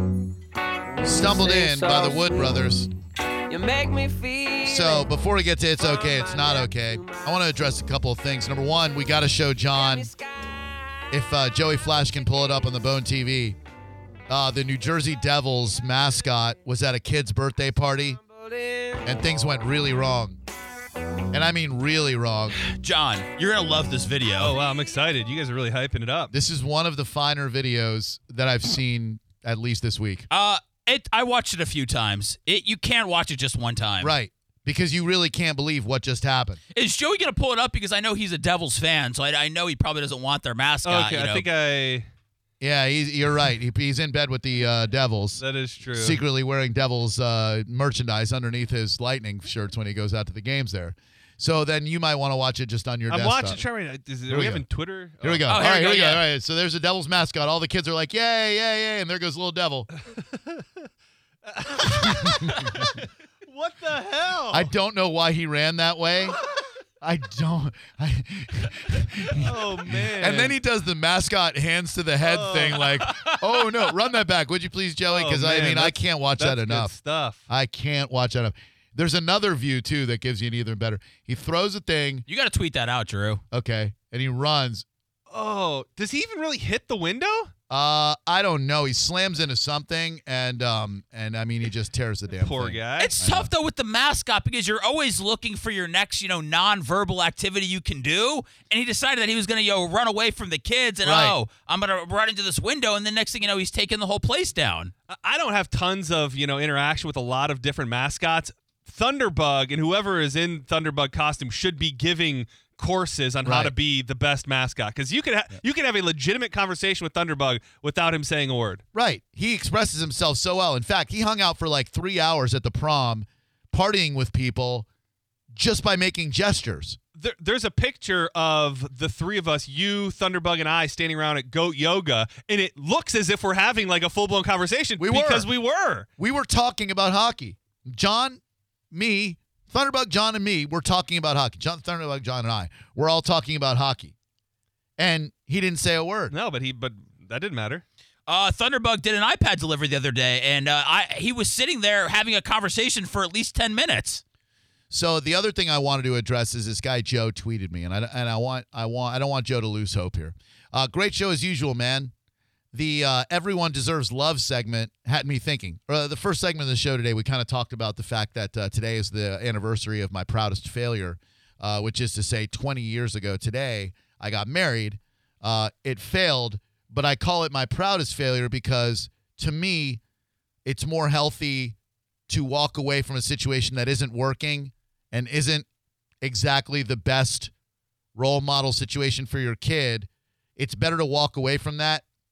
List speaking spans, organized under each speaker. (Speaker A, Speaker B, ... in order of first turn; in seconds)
Speaker A: 0.9-2.6, 3.5-5.1, 5.8-7.4, 9.7-11.2, 18.1-19.1
Speaker B: 1.0-2.9, 4.6-10.1, 11.1-13.6, 14.3-18.2, 19.0-20.4, 21.3-22.6, 26.3-30.3, 34.0-36.6, 42.6-45.4, 45.9-53.6, 54.3-54.6, 55.2-59.9, 62.0-62.8, 64.5-66.4, 67.0-76.9, 77.5-82.2, 83.5-84.8, 87.7-93.5, 101.0-101.3, 113.4-113.7, 118.9-124.9, 125.5-127.0, 135.0-135.5, 136.2-138.4, 138.9-144.1, 145.0-146.3, 154.9-162.1, 162.7-180.0, 180.6-181.8, 182.3-185.7, 186.2-187.5, 188.1-192.0
Speaker C: 22.5-24.6, 30.3-34.1, 36.7-41.5, 55.5-56.3, 82.3-83.4, 93.0-104.9, 148.3-154.2
Speaker D: 24.4-26.3, 40.8-42.1, 45.4-46.2, 53.1-56.0, 60.3-60.6, 61.5-64.7, 69.3-70.5, 72.2-72.9, 75.1-77.4, 85.3-87.5, 92.4-93.2, 105.1-118.8, 127.2-136.1, 146.3-147.8